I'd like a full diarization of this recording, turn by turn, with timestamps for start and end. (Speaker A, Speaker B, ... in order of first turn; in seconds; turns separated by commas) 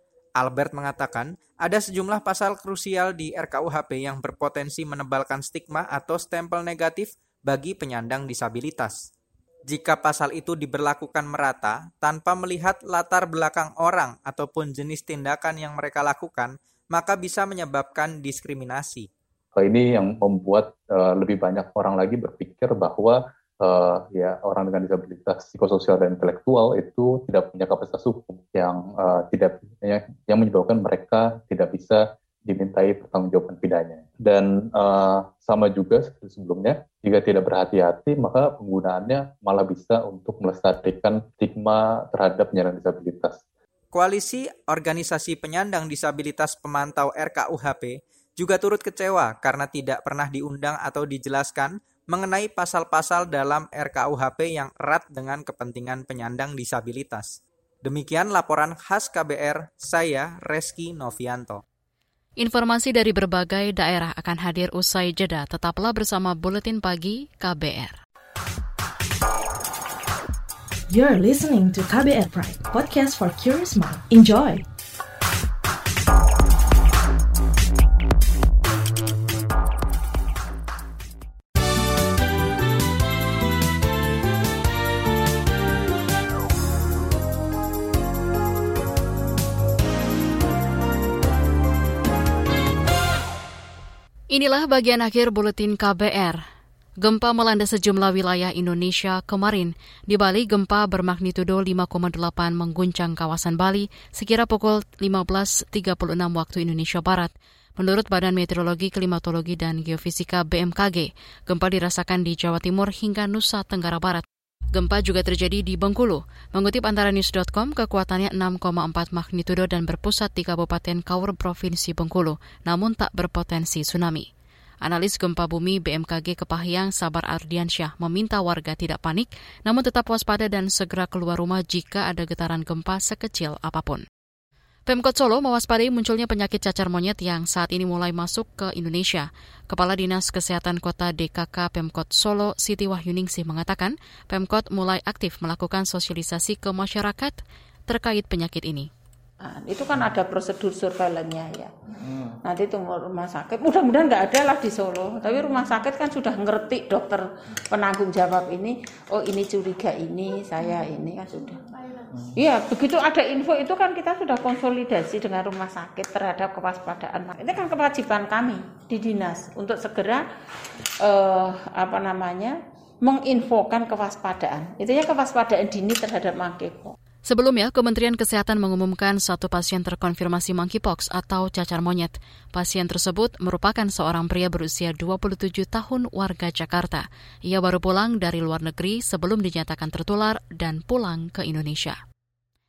Speaker A: 0.4-9.1, Speaker A: 9.7-19.1, Speaker B: 19.6-43.4, Speaker A: 43.9-61.6, Speaker C: 62.4-68.0, Speaker D: 70.9-74.7, Speaker C: 94.3-96.4, Speaker C: 97.0-124.3, Speaker C: 124.8-134.1, Speaker C: 134.9-148.9, Speaker E: 149.4-151.7, Speaker E: 152.4-161.6, Speaker E: 162.3-170.2, Speaker E: 171.0-176.9, Speaker C: 177.3-192.0